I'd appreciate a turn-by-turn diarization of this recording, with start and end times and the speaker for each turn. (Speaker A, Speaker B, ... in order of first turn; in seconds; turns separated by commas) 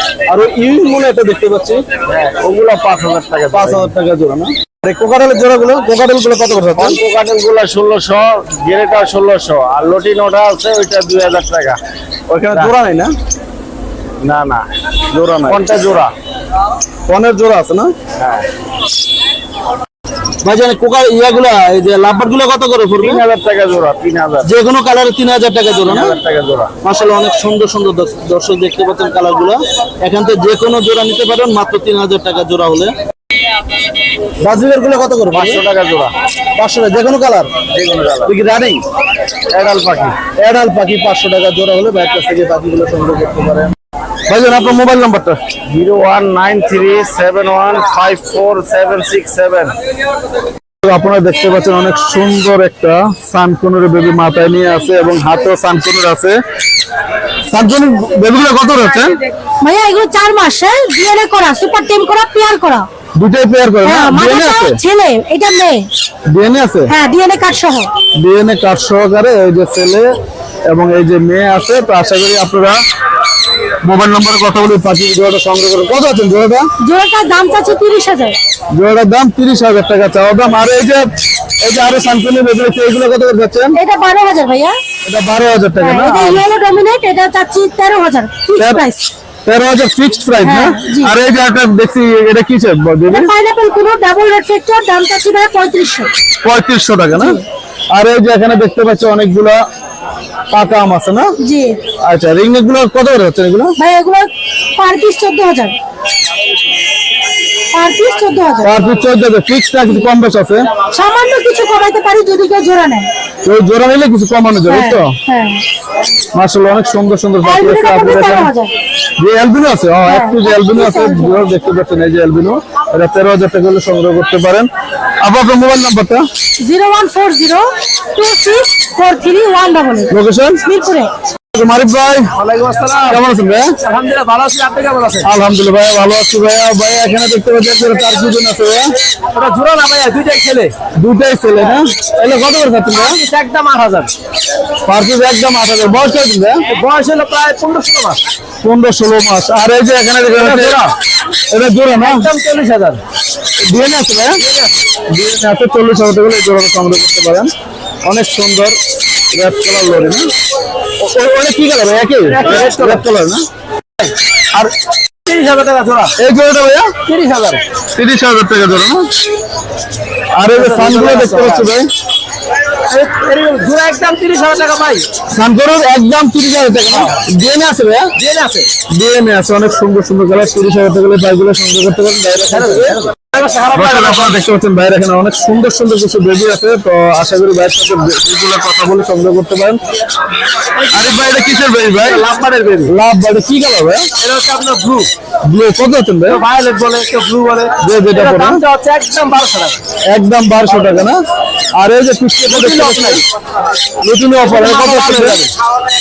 Speaker A: 0.3-1.8, Speaker B: 2.1-3.9, Speaker A: 3.5-7.0, Speaker B: 6.8-11.8, Speaker A: 12.3-13.1, Speaker B: 14.2-16.1, Speaker A: 17.1-17.9, Speaker B: 18.2-18.5, Speaker A: 20.4-23.2, Speaker B: 23.0-24.5, Speaker A: 24.4-26.2, Speaker B: 25.8-26.7, Speaker A: 26.8-32.9, Speaker A: 34.4-35.6, Speaker B: 35.3-36.1, Speaker A: 36.6-37.5, Speaker B: 37.7-38.3, Speaker A: 38.2-38.8, Speaker B: 39.5-40.2, Speaker A: 40.3-43.7, Speaker A: 44.3-45.4, Speaker B: 45.7-49.7, Speaker A: 50.8-56.4, Speaker A: 57.5-59.1, Speaker C: 59.6-62.9, Speaker A: 63.2-64.8, Speaker C: 63.8-65.9, Speaker A: 66.3-66.9, Speaker C: 66.9-67.9, Speaker A: 68.2-70.0, Speaker A: 70.7-72.8, Speaker A: 73.8-76.7, Speaker C: 76.8-78.4, Speaker A: 78.7-81.0, Speaker A: 81.6-83.8, Speaker C: 83.7-84.8, Speaker A: 85.0-86.4, Speaker C: 85.8-89.1, Speaker A: 88.6-88.8, Speaker A: 89.4-93.3, Speaker C: 90.4-91.2, Speaker C: 93.0-96.1, Speaker A: 96.4-99.6, Speaker C: 97.1-97.4, Speaker A: 100.5-101.3, Speaker C: 101.4-101.8, Speaker A: 102.0-103.8, Speaker C: 103.8-105.8, Speaker C: 107.7-108.8, Speaker A: 108.6-110.6, Speaker C: 110.9-113.1, Speaker A: 113.4-115.2, Speaker C: 114.7-115.6, Speaker A: 116.3-118.5, Speaker C: 117.4-118.7, Speaker A: 119.2-124.7, Speaker C: 120.0-121.4, Speaker A: 125.2-126.2, Speaker C: 126.6-131.1, Speaker A: 130.1-130.6, Speaker A: 131.5-132.3, Speaker D: 132.3-133.2, Speaker A: 133.1-133.8, Speaker D: 133.8-135.3, Speaker A: 135.2-138.9, Speaker D: 139.3-140.7, Speaker A: 140.9-143.2, Speaker D: 142.9-144.1, Speaker A: 144.8-146.6, Speaker D: 146.7-148.2, Speaker A: 148.6-150.9, Speaker D: 150.3-150.9, Speaker A: 151.5-152.3, Speaker D: 152.0-153.0, Speaker A: 153.6-154.4, Speaker D: 154.4-154.7, Speaker A: 155.1-157.5, Speaker A: 158.0-158.8, Speaker A: 159.3-160.2, Speaker A: 161.0-163.4, Speaker D: 162.3-163.0, Speaker D: 165.2-166.1, Speaker A: 166.2-166.9, Speaker D: 167.1-167.6, Speaker A: 167.9-169.1, Speaker A: 170.3-171.9, Speaker D: 170.5-171.7, Speaker D: 172.9-175.1, Speaker A: 175.3-178.1, Speaker D: 178.2-178.7, Speaker A: 178.9-183.0, Speaker D: 182.5-184.4, Speaker A: 183.7-189.8, Speaker D: 190.8-192.9, Speaker A: 190.9-192.2, Speaker A: 192.9-194.1, Speaker D: 194.2-195.1, Speaker A: 195.4-196.4, Speaker D: 196.2-199.8, Speaker A: 197.8-198.6, Speaker A: 200.1-201.2, Speaker A: 201.8-203.2, Speaker D: 202.5-203.2, Speaker A: 204.0-205.4, Speaker D: 204.4-205.5